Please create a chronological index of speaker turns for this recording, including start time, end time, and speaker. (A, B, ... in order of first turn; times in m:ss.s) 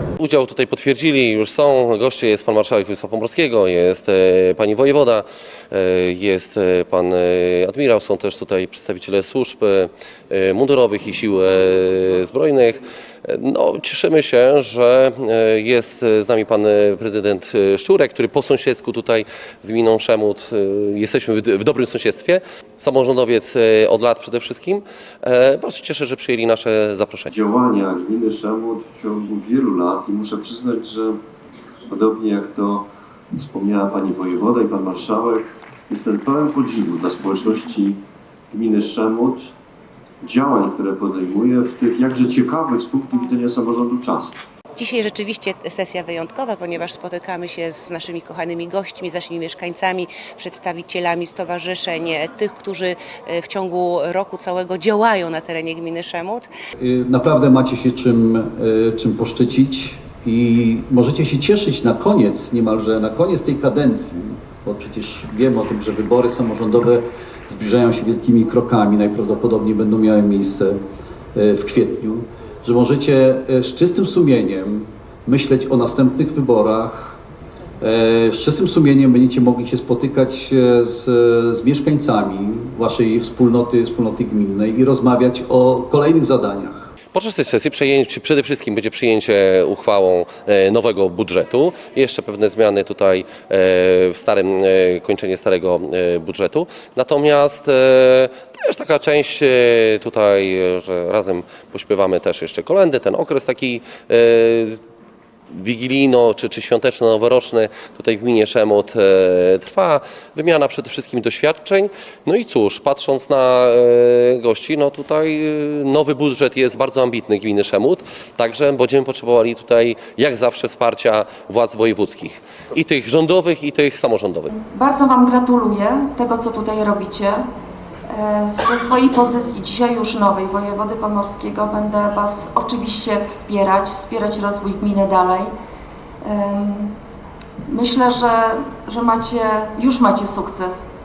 0:00.2-0:27.3 A
0:27.3-0:31.2 B
0:31.9-0:38.0 B
0:38.5-0:39.5 B
0:40.2-0:44.4 B
0:44.8-0:56.5 C
0:56.8-1:10.8 D
1:11.3-1:17.2 D
1:17.8-1:26.9 D
1:27.1-1:44.8 A
1:45.5-2:04.5 A
2:04.6-2:07.5 E
2:08.1-2:15.5 E
2:16.2-2:17.0 E
2:17.7-2:20.8 E